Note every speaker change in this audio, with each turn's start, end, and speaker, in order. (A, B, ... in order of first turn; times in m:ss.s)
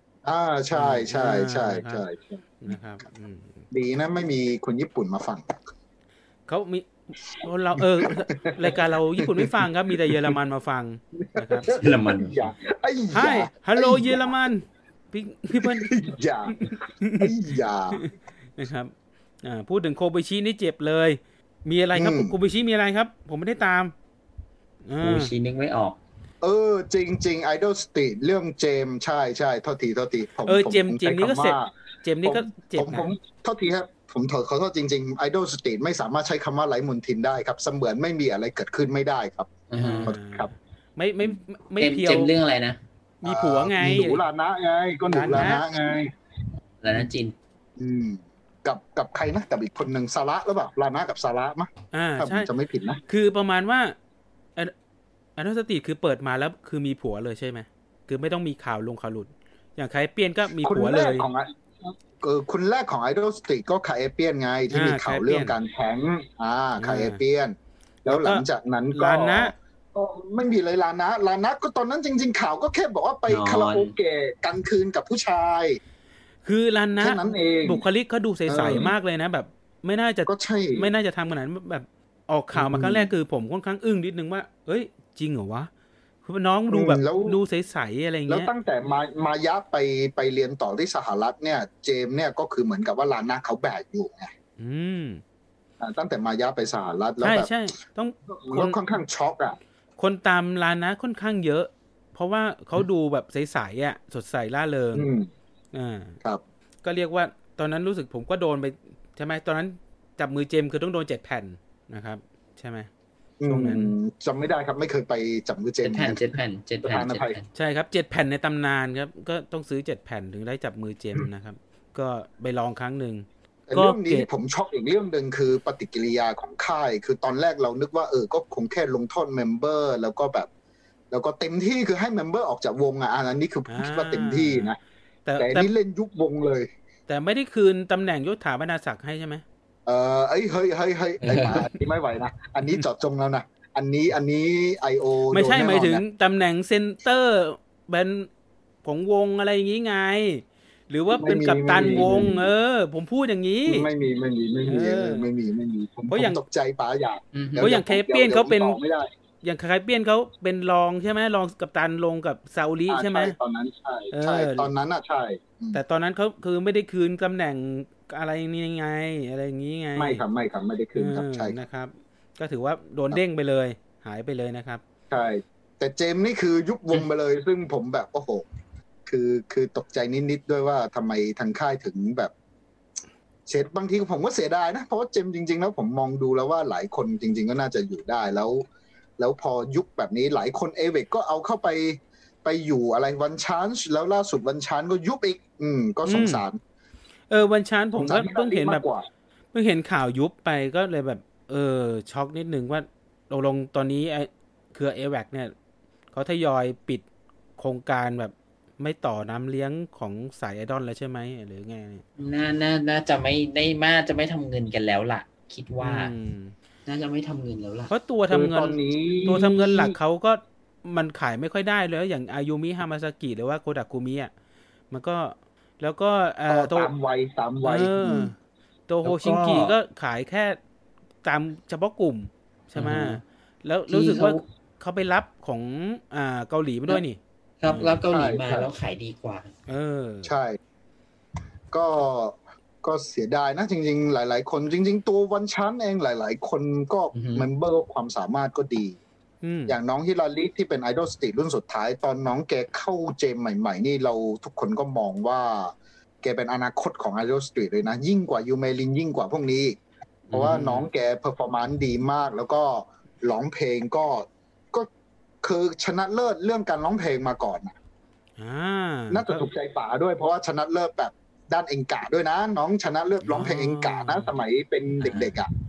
0:00.2-0:02.4 A
0:00.7-0:02.0 B
0:02.6-0:03.6 B
0:03.7-0:05.6 A
0:06.5-0:11.7 B
0:07.8-0:10.3 A
0:11.2-0:14.4 A
0:11.7-0:12.4 C
0:13.1-0:16.1 B
0:15.6-0:18.1 A
0:16.6-0:17.3 B
0:18.6-0:18.9 B
0:19.4-0:23.9 B
0:21.9-0:22.3 A
0:24.8-0:25.3 B
0:25.0-0:26.0 C
0:26.4-0:31.7 A
0:30.4-0:33.1 B
0:32.2-0:40.5 A
0:39.7-0:40.1 C
0:39.8-0:42.3 B
0:41.8-0:42.8 C
0:43.2-0:46.1 A
0:43.2-0:44.2 B
0:45.1-0:45.6 B
0:46.8-0:47.3 C
0:47.8-0:53.0 A
0:51.9-0:52.5 B
0:53.1-0:54.0 B
0:55.4-1:01.3 B
1:00.6-1:15.8 A
1:04.7-1:05.5 B
1:06.8-1:07.2 B
1:08.1-1:09.5 B
1:13.3-1:13.9 C
1:16.4-1:25.7 B
1:17.0-1:17.8 A
1:18.5-1:18.9 A
1:20.3-1:20.9 A
1:22.5-1:23.1 A
1:26.2-1:28.5 B
1:26.7-1:27.4 A
1:28.3-1:34.3 A
1:34.6-1:35.2 B
1:35.8-1:37.5 A
1:37.2-1:38.8 B
1:38.3-1:39.6 A
1:40.0-1:45.0 B
1:44.9-1:45.3 A
1:45.7-1:46.2 B
1:46.8-1:52.9 B
1:53.4-1:56.2 A
1:53.5-1:53.9 B
1:55.8-1:57.5 C
1:56.8-1:57.4 A
1:57.5-2:04.3 B
2:03.7-2:10.5 A
2:11.1-2:14.8 A
2:13.7-2:14.7 B
2:15.2-2:15.7 B
2:15.4-2:16.7 A
2:17.1-2:19.4 B
2:19.8-2:26.0 A
2:21.2-2:21.7 C
2:25.3-2:28.3 B
2:28.8-2:33.9 B
2:31.1-2:32.5 A
2:33.6-2:39.1 A
2:34.6-2:35.3 B
2:36.1-2:36.4 B
2:37.3-2:37.6 C
2:37.6-2:38.8 B
2:39.4-2:43.4 B
2:42.9-2:45.8 A
2:44.1-2:44.7 B
2:45.7-2:50.2 B
2:50.0-2:51.5 A
2:51.0-2:54.8 B
2:55.1-2:58.4 A
2:59.0-3:02.3 A
3:03.5-3:08.6 A
3:09.2-3:16.6 A
3:16.0-3:16.4 B
3:17.3-3:18.8 B
3:17.9-3:19.1 A
3:19.5-3:25.5 B
3:26.1-3:27.0 B
3:27.6-3:32.0 B
3:32.2-3:36.1 C
3:35.8-3:36.5 B
3:36.8-3:37.9 C
3:37.9-3:44.3 B
3:38.3-3:39.9 A
3:44.9-3:46.9 B
3:46.5-3:48.3 A
3:47.6-3:48.3 B
3:48.9-3:50.6 B
3:49.0-3:49.7 C
3:51.2-3:58.0 B
3:52.7-3:53.2 C
3:53.9-3:54.4 C
3:57.6-3:59.5 C
3:58.1-3:58.7 A
3:59.7-4:00.3 B
4:00.2-4:00.6 A
4:01.7-4:09.0 A
4:07.1-4:07.4 C
4:09.4-4:09.7 B
4:09.7-4:19.8 A
4:20.3-4:20.9 C
4:20.3-4:24.9 A
4:25.4-4:27.7 A
4:28.4-4:29.4 B
4:29.1-4:35.5 A
4:33.2-4:34.3 B
4:35.0-4:35.4 C